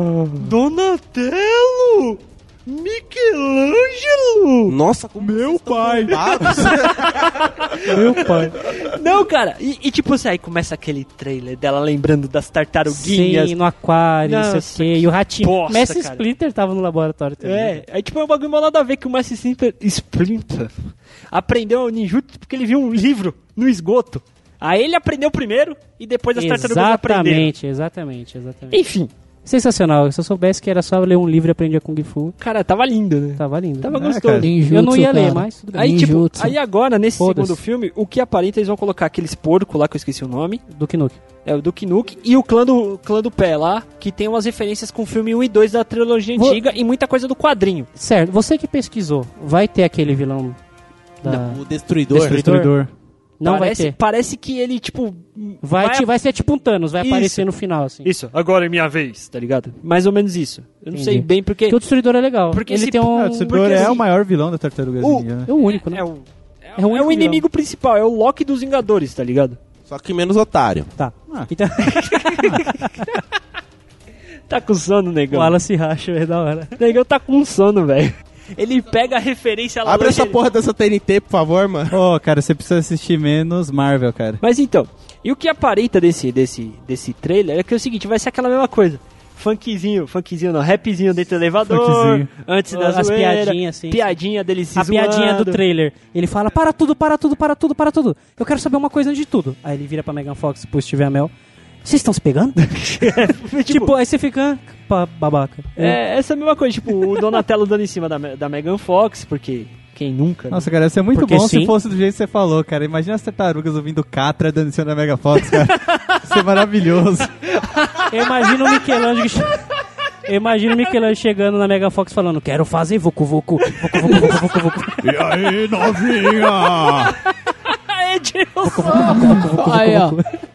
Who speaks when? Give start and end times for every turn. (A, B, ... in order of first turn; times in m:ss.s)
0:00.3-0:04.7 A
0:04.6-0:07.5 B
0:05.2-0:07.0 C
0:06.8-0:13.6 A
0:07.8-0:08.6 D
0:12.8-0:17.8 D
0:14.2-0:16.2 A
0:17.4-0:27.5 A
0:26.4-0:28.8 D
0:28.7-0:29.1 A
0:29.4-0:32.4 D
0:32.4-0:34.5 A
0:33.4-0:33.9 D
0:33.9-0:34.5 C
0:34.4-0:36.5 E
0:34.7-0:36.3 D
0:35.7-0:40.6 A
0:37.2-0:37.6 D
0:40.7-0:41.2 D
0:41.4-0:47.9 A
0:48.0-0:50.6 D
0:51.2-0:51.6 D
0:51.3-0:52.4 B
0:52.1-0:52.9 C
0:52.1-0:52.7 D
0:53.4-0:54.0 D
0:53.4-0:56.1 A
0:55.6-0:58.1 D
0:57.0-0:57.4 A
0:58.0-1:01.8 A
1:00.9-1:03.9 D
1:02.5-1:04.0 A
1:03.0-1:05.5 C
1:05.0-1:09.6 A
1:05.5-1:06.0 D
1:06.8-1:07.4 D
1:09.9-1:10.9 B
1:11.0-1:13.0 D
1:11.8-1:13.2 A
1:14.5-1:15.6 A
1:15.3-1:16.8 D
1:16.8-1:20.4 A
1:19.8-1:22.0 B
1:21.9-1:24.4 C
1:24.4-1:35.6 A
1:31.6-1:32.3 C
1:32.7-1:34.1 D
1:34.7-1:41.3 D
1:41.8-1:46.0 D
1:42.7-1:43.9 A
1:45.8-1:50.7 A
1:50.5-1:57.3 C
1:51.2-1:51.8 D
1:57.5-1:58.8 A
1:58.1-1:59.6 D
2:00.2-2:05.2 D
2:03.9-2:04.4 A
2:05.0-2:07.1 C
2:06.2-2:09.4 A
2:08.6-2:10.3 D
2:09.0-2:10.2 E